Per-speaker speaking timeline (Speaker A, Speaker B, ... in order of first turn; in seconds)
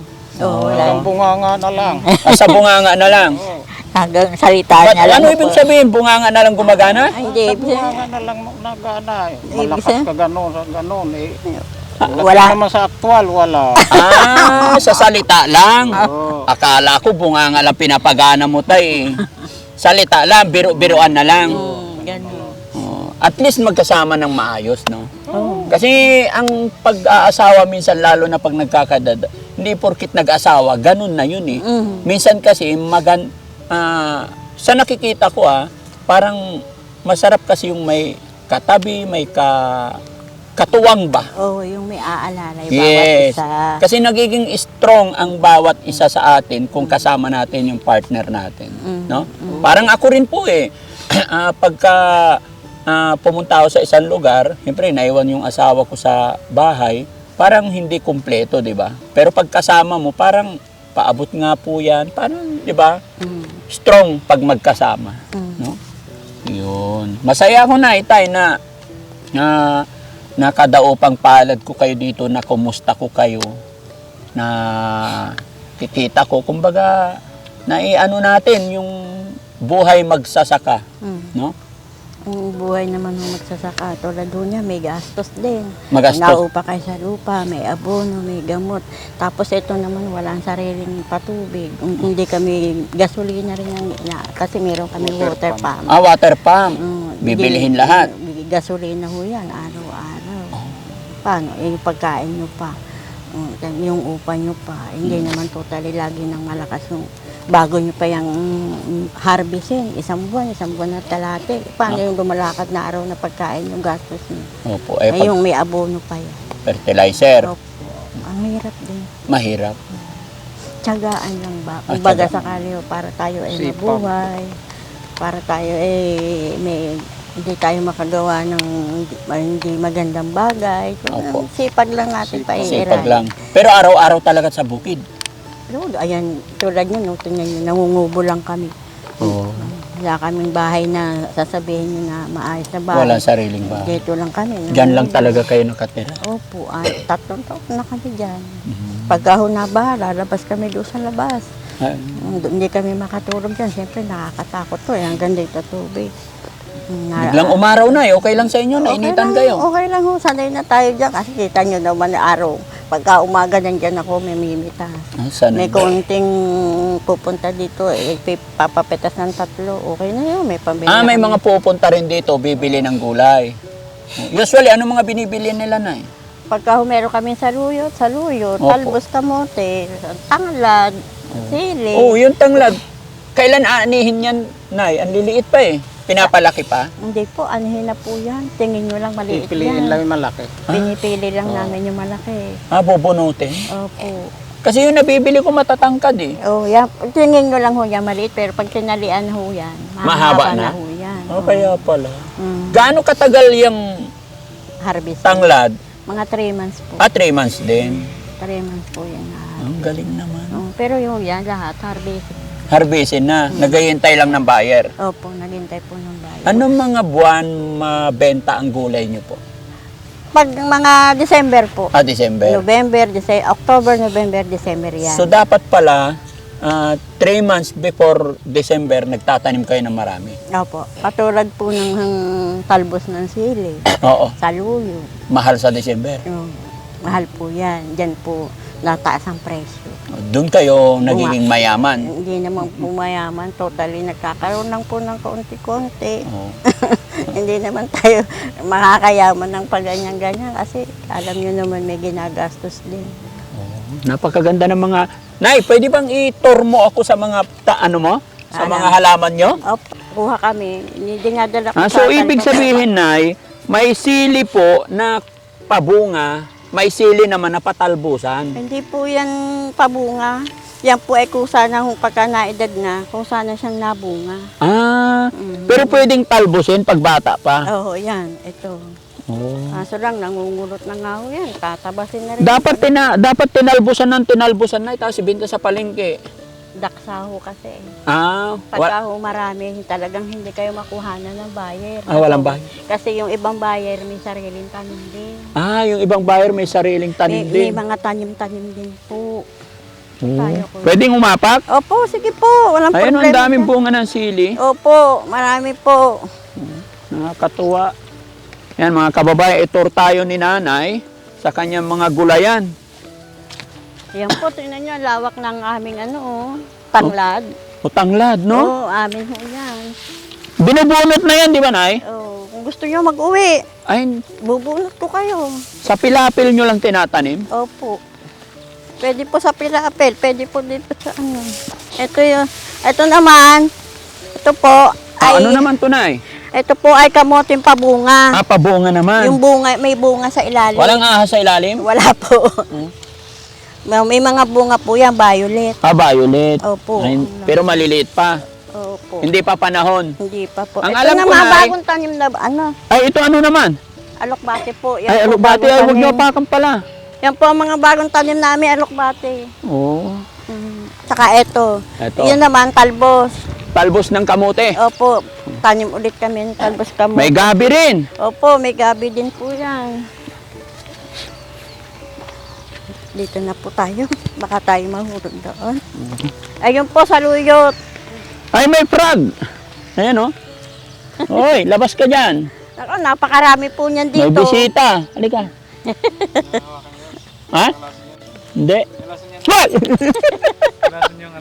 Speaker A: 0.4-1.1, 1.8-2.6, 3.7-5.7, 7.0-8.0, 9.5-10.1, 11.5-12.6, 13.8-14.8, 21.4-22.5, 25.3-25.7, 31.6-32.1, 41.4-43.8, 48.8-49.8, 63.2-63.6, 65.3-65.6, 81.0-81.3, 82.3-96.0, 96.7-102.8, 103.3-114.5, 115.1-116.4, 117.4-119.1, 120.8-124.5, 125.2-133.3, 135.7-145.4, 146.2-151.4, 152.2-156.1, 156.9-158.0, 158.8-171.4, 176.5-182.2, 187.0-190.0, 190.7-192.6, 193.7-194.3, 196.4-201.8, 202.4-202.9, 204.8-205.5, 206.1-207.1, 207.8-209.7, 210.5-212.6, 215.0-216.7, 220.3-221.9, 222.4-225.3, 230.5-235.1, 236.3-240.0, 241.1-241.4, 242.0-253.2, 258.5-259.0, 259.6-262.8, 268.6-274.5, 275.3-276.0, 277.6-278.9, 279.7-282.9, 286.8-287.9, 288.7-295.5, 297.2-299.4, 300.3-301.0, 301.7-303.7, 304.6-306.2, 314.1-317.4, 318.5-319.9, 322.0-323.6, 324.4-325.6, 327.5-328.0, 329.0-333.7, 334.4-335.6, 336.5-338.4, 339.2-341.0, 341.8-342.7, 343.9-345.8, 346.6-347.7, 348.7-349.3, 350.2-352.7, 354.2-356.2, 357.2-359.5, 360.5-363.3, 364.7-370.0, 373.1-375.8, 376.6-377.7, 382.8-384.7, 385.9-386.7, 390.1-390.9
Speaker B: 0.4-1.1, 2.2-3.4, 4.7-7.1, 13.9-19.2, 19.8-21.6, 22.7-40.0, 40.5-41.3, 42.7-63.0, 63.7-65.8, 66.4-68.6, 69.3-69.9, 70.4-73.5, 74.3-80.8, 85.9-86.4, 95.9-98.1, 114.6-115.3, 116.6-117.5, 119.3-119.8, 121.9-122.4, 131.1-131.5, 132.6-135.0, 139.2-139.7, 142.9-143.9, 144.7-146.2, 148.7-149.2, 151.8-152.2, 157.2-159.6, 165.2-165.9, 170.9-173.6, 174.2-176.1, 178.6-179.0, 181.3-182.8, 183.3-186.9, 191.4-191.7, 192.7-193.7, 194.6-196.4, 200.0-200.8, 201.3-204.1, 205.2-205.7, 207.0-208.1, 209.6-210.6, 212.7-214.9, 216.4-219.4, 221.9-222.6, 225.0-230.3, 233.9-234.3, 235.3-236.2, 240.1-242.1, 242.6-242.9, 246.3-246.6, 253.5-259.6, 261.8-268.6, 274.6-277.7, 279.3-279.8, 282.4-286.2, 288.1-288.9, 292.1-292.6, 295.6-297.8, 300.2-301.6, 302.9-304.6, 306.6-307.9, 308.8-312.7, 317.8-318.7, 320.6-322.0, 323.9-324.2, 325.8-327.5, 335.2-336.2, 338.3-339.4, 340.8-341.8, 345.8-348.4, 349.2-350.2, 350.8-351.7, 352.9-353.8, 355.1-356.8, 359.6-360.2, 362.0-362.4, 363.7-364.8, 367.1-368.1, 376.0-376.3, 378.5-379.3, 379.9-380.3, 381.3-382.5, 384.1-385.5, 387.5-387.8, 388.5-391.1
Speaker C: 0.7-2.0, 3.1-3.6, 7.1-11.4, 12.0-13.9, 14.6-14.8, 15.9-16.5, 20.9-22.5, 25.3-25.7, 95.0-95.7, 123.5-124.2, 132.3-133.1, 189.3-190.6